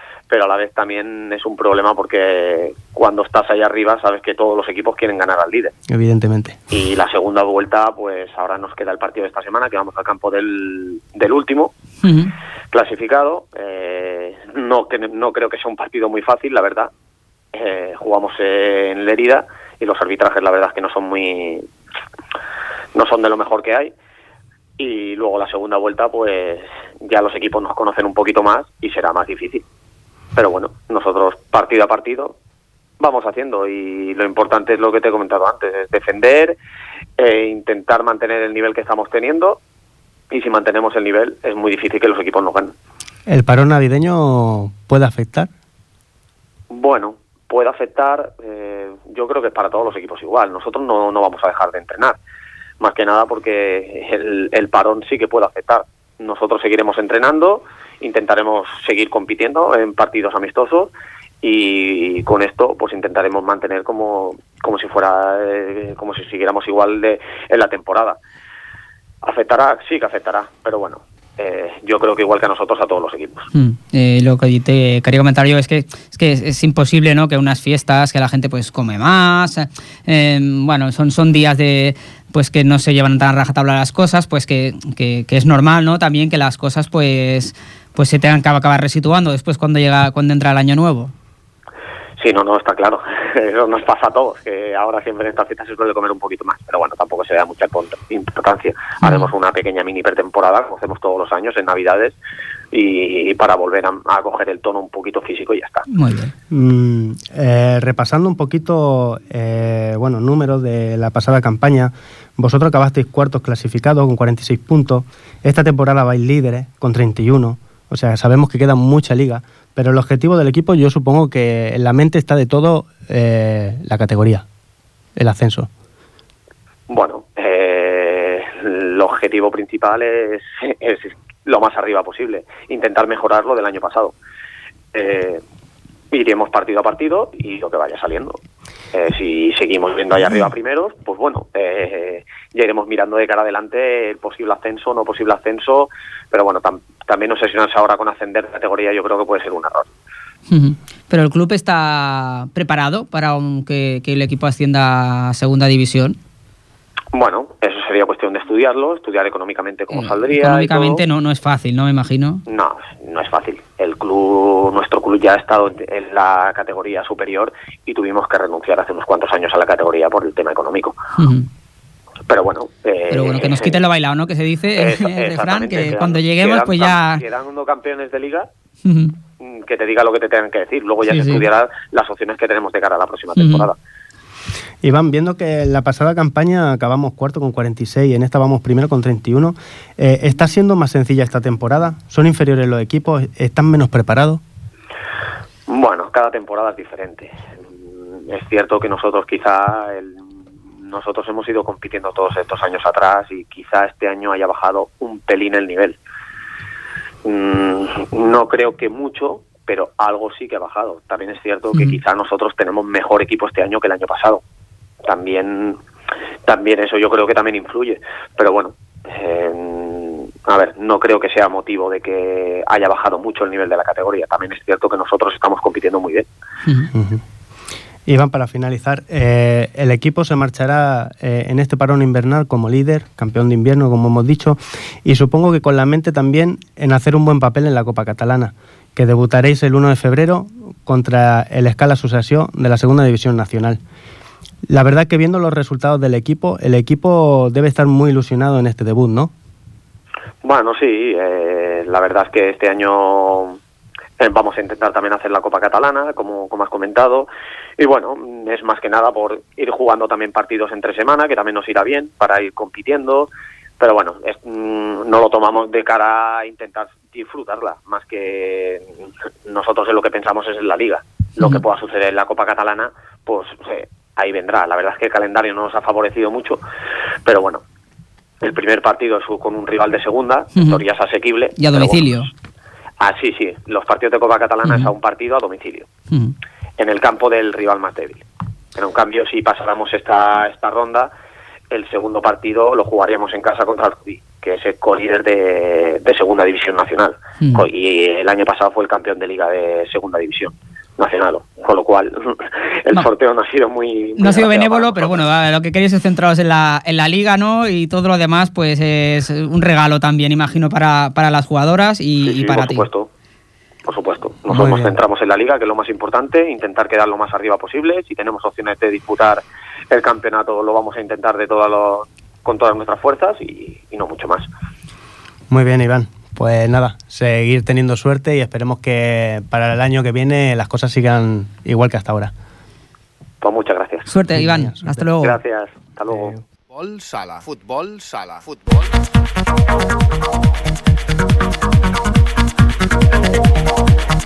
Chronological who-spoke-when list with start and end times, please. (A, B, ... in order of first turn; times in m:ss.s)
0:00.3-0:05.7 A
0:05.9-0:06.6 B
0:06.7-0:11.7 A
0:12.0-0:12.3 C
0:12.7-0:16.9 A
0:17.5-0:21.7 A
0:22.9-0:23.9 A
0:24.8-0:29.6 A
0:30.3-0:32.4 A
0:33.0-0:36.6 A
0:37.2-0:39.6 A
0:40.3-0:42.7 A
0:43.3-0:45.5 B
0:46.7-0:52.2 A
0:52.8-1:08.2 A
1:09.2-1:13.5 A
1:13.5-1:31.1 C
1:32.2-1:42.2 A
1:39.0-1:39.3 C
1:42.7-1:45.8 A
1:45.9-1:46.3 C
1:46.5-2:04.4 B
2:05.2-2:05.7 B
2:06.9-2:14.1 A
2:14.9-2:15.4 A
2:16.1-2:18.4 A
2:18.9-2:29.9 A
2:30.5-2:36.2 C
2:37.1-2:41.0 A
2:39.9-2:42.4 C
2:42.4-2:51.0 A
2:51.2-2:51.5 C
2:52.3-2:53.8 A
2:53.1-2:57.2 C
2:54.8-2:58.5 A
2:58.8-2:59.1 C
2:59.4-3:03.8 A
3:01.1-3:01.4 C
3:03.4-3:03.7 C
3:04.8-3:14.4 B
3:15.7-3:17.4 A
3:17.9-3:26.0 A
3:27.2-3:34.4 A
3:35.0-3:35.8 A
3:36.4-3:46.3 A
3:46.9-3:47.2 B
3:48.0-4:03.8 B
4:04.7-4:09.3 B
4:10.4-4:13.6 A
4:14.2-4:17.3 A
4:17.8-4:36.6 A
4:37.2-4:37.6 A
4:38.4-4:42.2 A
4:40.6-4:40.8 C
4:41.6-4:42.3 C
4:43.0-4:45.9 A
4:44.6-4:44.9 C
4:46.8-4:48.2 A
4:48.7-4:51.1 A
4:51.7-5:05.2 A
5:04.2-5:12.8 C
5:12.2-5:13.1 A
5:13.8-5:24.5 A
5:14.5-5:15.0 B
5:25.5-5:32.3 B
5:33.4-5:34.1 A
5:34.0-5:35.4 C
5:34.3-5:34.8 B
5:35.2-5:36.3 A
5:36.7-5:38.9 D